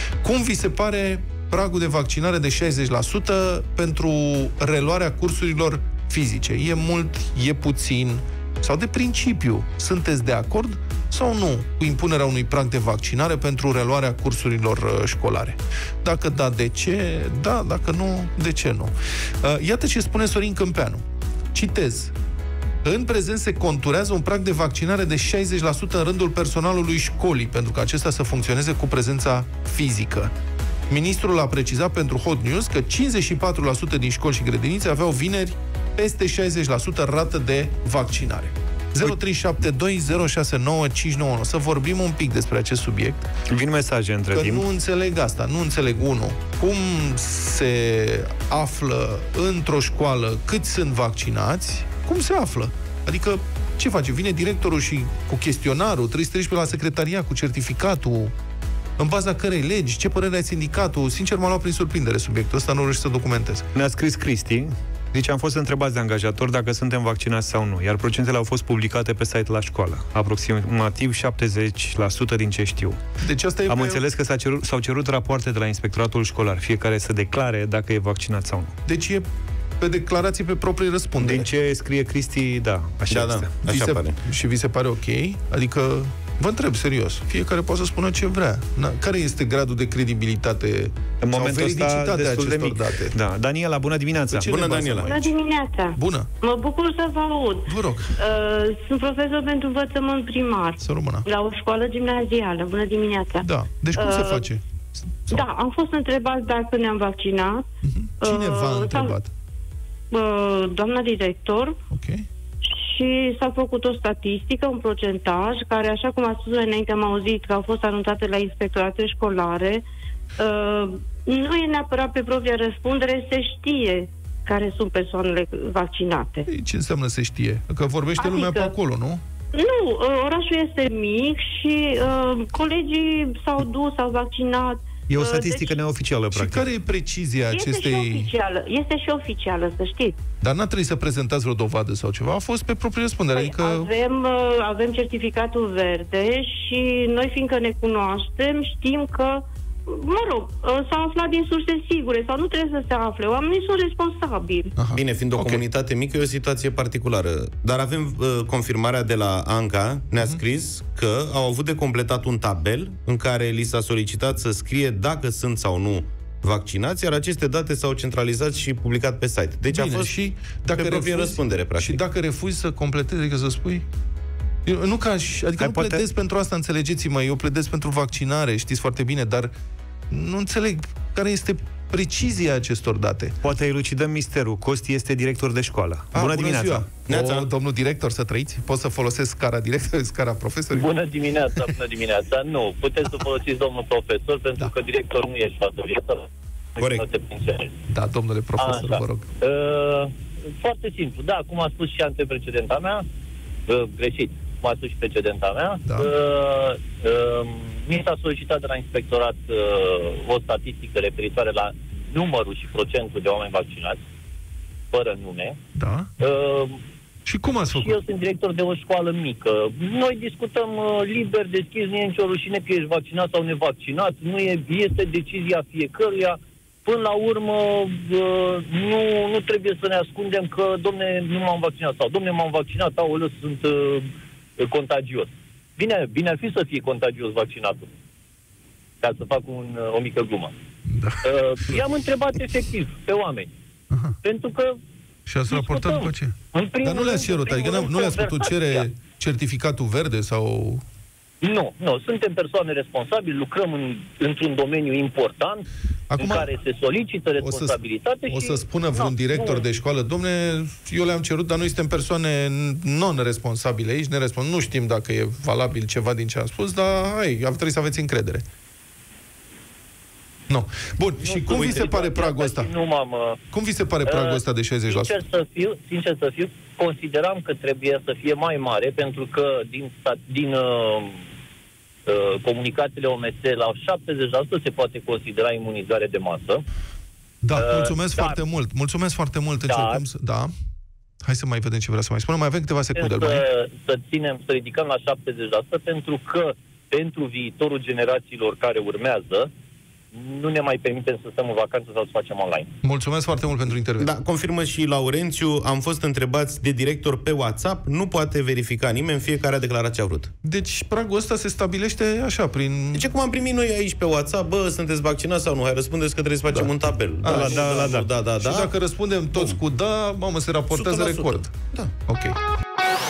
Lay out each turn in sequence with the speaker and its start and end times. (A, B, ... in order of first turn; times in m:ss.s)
0:00.2-0:21.0 A
0:21.5-0:22.1 A
0:22.8-0:30.3 A
0:30.9-0:43.2 A
0:43.5-0:44.6 B
0:44.3-0:58.3 A
0:59.0-1:03.7 A
1:03.8-1:13.0 B
1:13.2-1:14.0 A
1:13.7-1:18.7 B
1:18.9-1:19.2 A
1:19.8-1:21.5 A
1:21.2-1:23.6 B
1:23.1-1:24.2 C
1:23.6-1:33.2 A
1:31.2-1:34.5 B
1:34.3-1:35.3 A
1:34.4-1:35.2 C
1:35.0-1:44.5 D
1:35.9-1:36.3 A
1:37.7-1:38.2 A
1:40.8-1:41.3 A
1:43.4-1:44.6 A
1:45.3-1:47.6 D
1:47.8-1:49.3 A
1:48.2-1:49.2 D
1:50.1-1:51.8 D
1:51.9-1:52.2 A
1:52.6-1:59.8 D
2:00.4-2:06.5 D
2:06.5-2:09.2 A
2:08.2-2:08.7 D
2:09.5-2:15.8 D
2:15.1-2:16.6 B
2:16.3-2:18.3 A
2:17.5-2:20.2 D
2:20.4-2:23.9 A
2:23.3-2:34.7 D
2:34.8-2:35.6 A
2:34.9-2:50.1 C
2:49.7-2:53.8 A
2:50.8-2:52.0 C
2:54.7-2:59.5 A
2:55.6-2:56.0 B
3:00.1-3:03.4 A
3:03.4-3:06.9 B
3:06.1-3:10.9 A
3:07.1-3:07.5 C
3:10.7-3:17.7 E
3:16.8-3:17.1 C
3:17.9-3:19.3 A
3:18.6-3:23.0 E
3:23.7-3:34.0 E
3:34.9-3:35.6 E
3:35.8-3:36.1 A
3:36.2-3:36.8 E
3:37.3-3:38.0 A
3:37.5-3:57.9 E
3:59.0-4:00.5 E
4:00.9-4:01.8 A
4:01.2-4:03.5 E
4:03.9-4:04.2 A
4:04.2-4:04.8 E
4:05.3-4:10.8 A
4:05.5-4:08.9 E
4:11.4-4:19.6 E
4:16.1-4:16.5 A
4:17.4-4:28.4 A
4:30.5-4:32.7 A
4:31.2-4:33.4 E
4:33.5-4:35.2 A
4:34.1-4:41.2 E
4:42.1-4:46.6 E
4:47.4-4:50.5 A
4:47.6-4:48.4 E
4:49.6-4:50.0 E
4:51.2-4:53.4 A
4:53.0-4:59.5 E
5:00.1-5:02.7 E
5:02.8-5:04.1 A
5:04.0-5:10.3 C
5:10.4-5:13.1 A
5:13.0-5:18.7 C
5:16.5-5:17.7 A
5:17.2-5:18.1 B
5:18.4-5:21.5 A
5:20.7-5:21.9 C
5:22.1-5:22.4 A